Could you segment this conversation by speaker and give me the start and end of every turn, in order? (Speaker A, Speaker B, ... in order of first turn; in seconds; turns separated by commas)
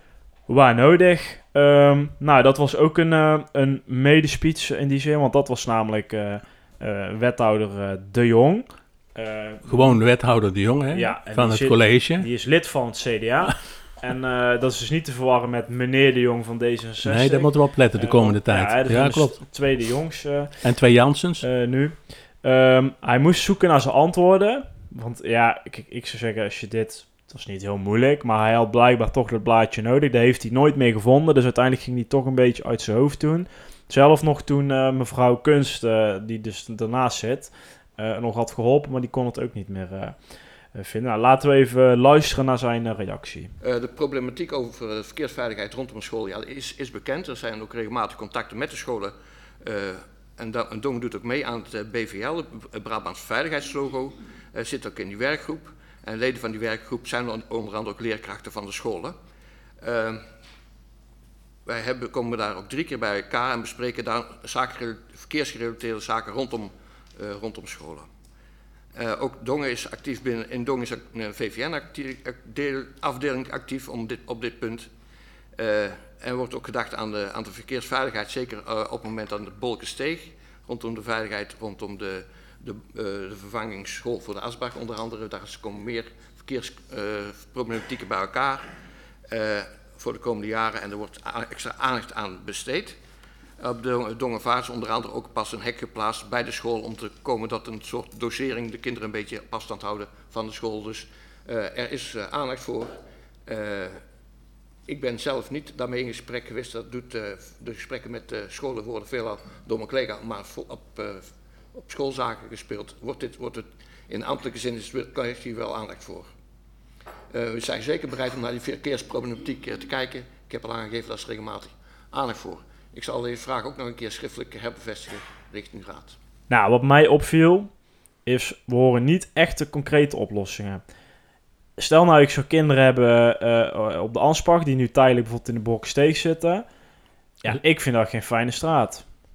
Speaker A: 0.5-10.0, Speaker B: 9.7-12.3, Speaker A: 10.9-20.6, Speaker B: 17.0-19.4, Speaker B: 20.6-21.4, Speaker A: 21.4-43.5, Speaker C: 43.6-59.2, Speaker C: 59.8-60.2, Speaker C: 61.7-68.1, Speaker C: 69.0-74.9, Speaker C: 75.6-88.7, Speaker C: 89.3-93.0, Speaker C: 93.6-104.0, Speaker C: 104.9-116.3, Speaker C: 117.3-126.2, Speaker A: 126.5-127.7, Speaker A: 128.2-130.8, Speaker A: 131.8-136.7, Speaker A: 137.4-139.1